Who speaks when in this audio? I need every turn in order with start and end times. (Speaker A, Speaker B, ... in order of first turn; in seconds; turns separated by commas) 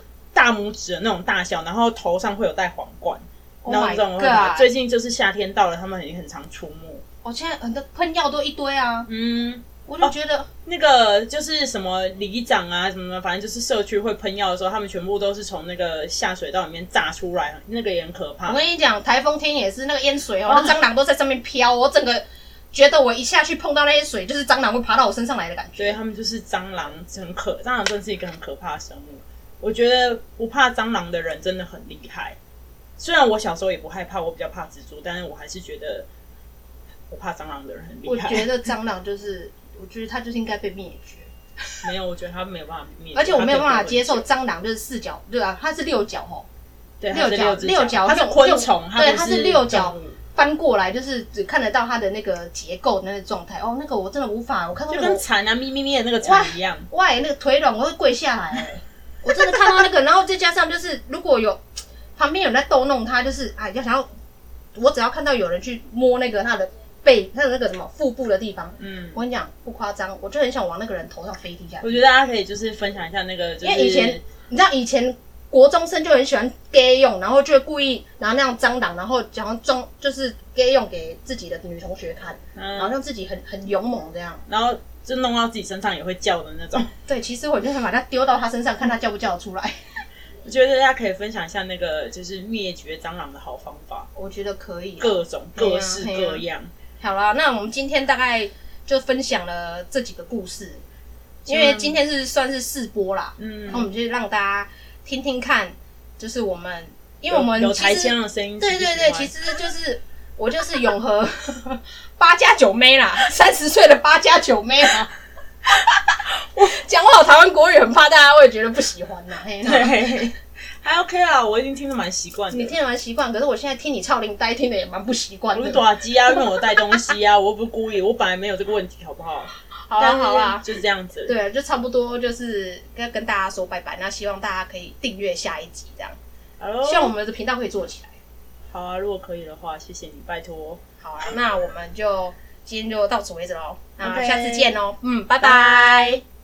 Speaker A: 0.3-7.0, Speaker B: 3.6-4.7, Speaker B: 7.2-9.1, Speaker A: 9.1-10.1, Speaker B: 9.9-10.5, Speaker A: 10.7-18.6, Speaker B: 18.5-26.0, Speaker A: 20.5-20.8, Speaker A: 25.8-32.4, Speaker A: 33.0-36.1, Speaker A: 37.1-38.5, Speaker B: 38.0-41.3, Speaker A: 41.8-44.2, Speaker B: 43.1-46.5, Speaker A: 47.0-50.2, Speaker B: 47.1-55.2, Speaker A: 54.9-56.9, Speaker B: 56.2-61.6, Speaker B: 62.2-64.1, Speaker B: 64.8-72.0, Speaker A: 68.8-69.2, Speaker A: 71.8-74.2, Speaker B: 73.6-84.4, Speaker A: 82.6-82.9, Speaker A: 84.5-86.9, Speaker B: 87.1-89.7, Speaker A: 90.5-94.1, Speaker B: 94.2-96.4, Speaker A: 95.0-96.7, Speaker B: 97.0-100.8, Speaker A: 101.5-102.0, Speaker B: 101.5-115.1, Speaker A: 103.4-103.9, Speaker A: 107.3-109.3, Speaker B: 115.8-120.1, Speaker A: 119.6-122.7, Speaker B: 122.5-126.8, Speaker A: 125.5-131.3, Speaker B: 129.9-130.7, Speaker B: 131.3-136.2, Speaker A: 136.6-137.1, Speaker B: 136.8-138.2, Speaker A: 138.7-140.8, Speaker B: 141.0-146.2, Speaker A: 144.0-144.7, Speaker A: 145.4-146.2